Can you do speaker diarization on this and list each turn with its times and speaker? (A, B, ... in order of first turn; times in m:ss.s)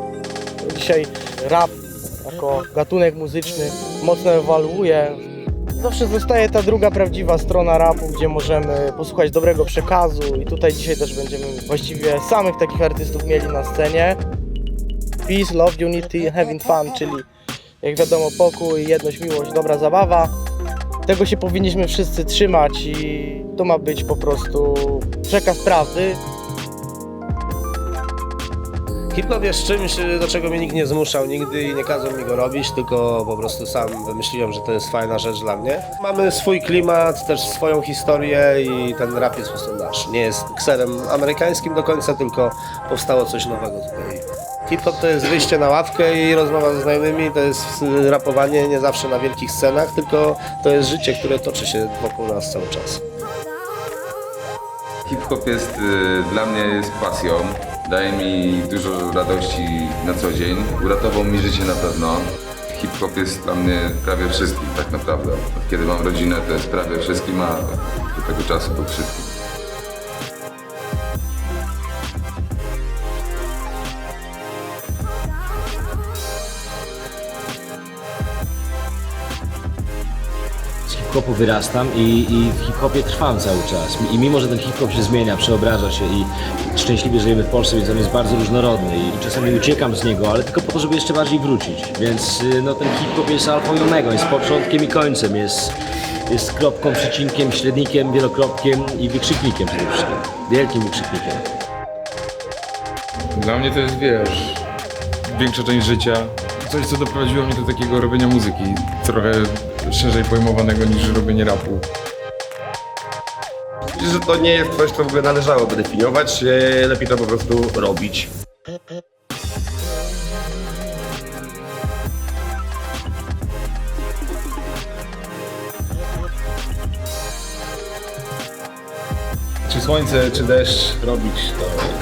0:00.6-0:05.2 A
0:05.8-0:14.2 A
0:15.2-0:17.2 A
0:17.8-0:20.3 A
0:21.0-0:26.2 A
0:29.1-0:53.0 B
0:55.0-1:09.3 C
1:20.9-1:35.7 D
1:36.3-1:41.4 D
1:43.4-1:44.5 E
1:43.9-1:44.4 C
1:45.3-1:51.8 E
1:45.5-1:47.8 C
1:54.0-1:58.3 F
2:09.7-2:11.8 G